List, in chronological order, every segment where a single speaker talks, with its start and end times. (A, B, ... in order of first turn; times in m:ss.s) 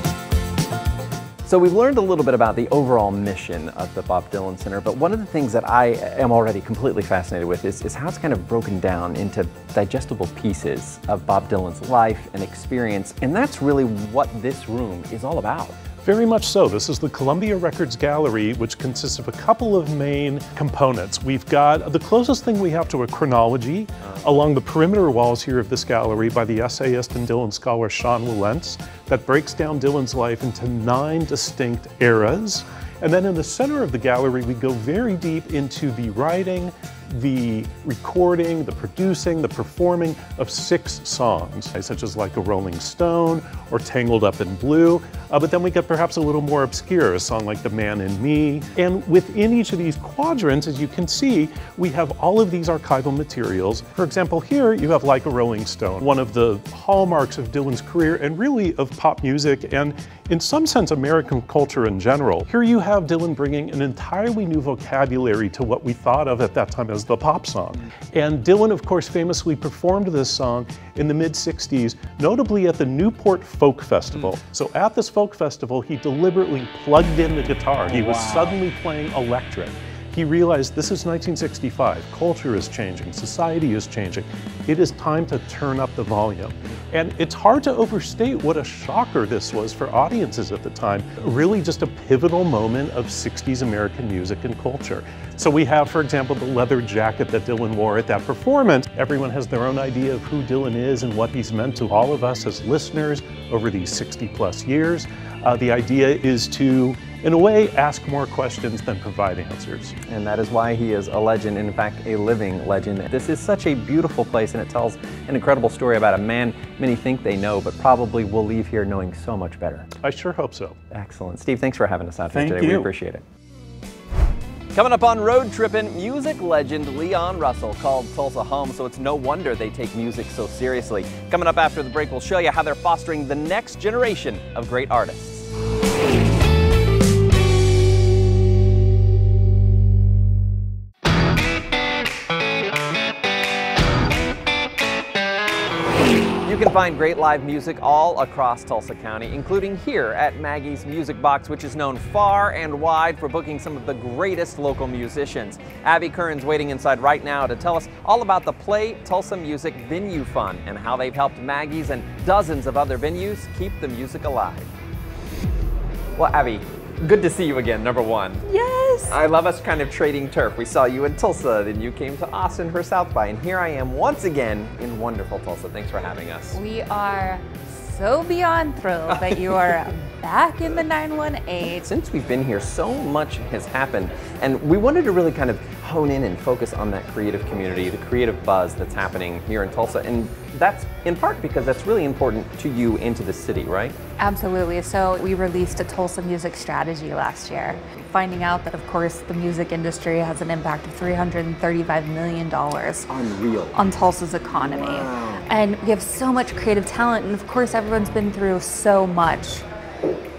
0:01.4-0:15.8 A
0:16.0-1:49.9 B
0:24.0-0:24.3 A
1:50.0-1:59.9 A
1:59.9-2:00.8 B
2:00.9-2:03.2 A
2:02.3-2:02.9 B
2:04.7-2:15.5 A
2:26.4-2:44.7 A
2:46.2-2:48.4 A
2:48.4-2:49.1 C
2:49.1-2:56.6 A
2:56.5-3:01.8 C
3:01.8-3:14.0 A
3:14.2-3:23.1 C
3:23.1-3:23.8 A
3:23.7-3:29.6 C
3:24.6-3:25.4 A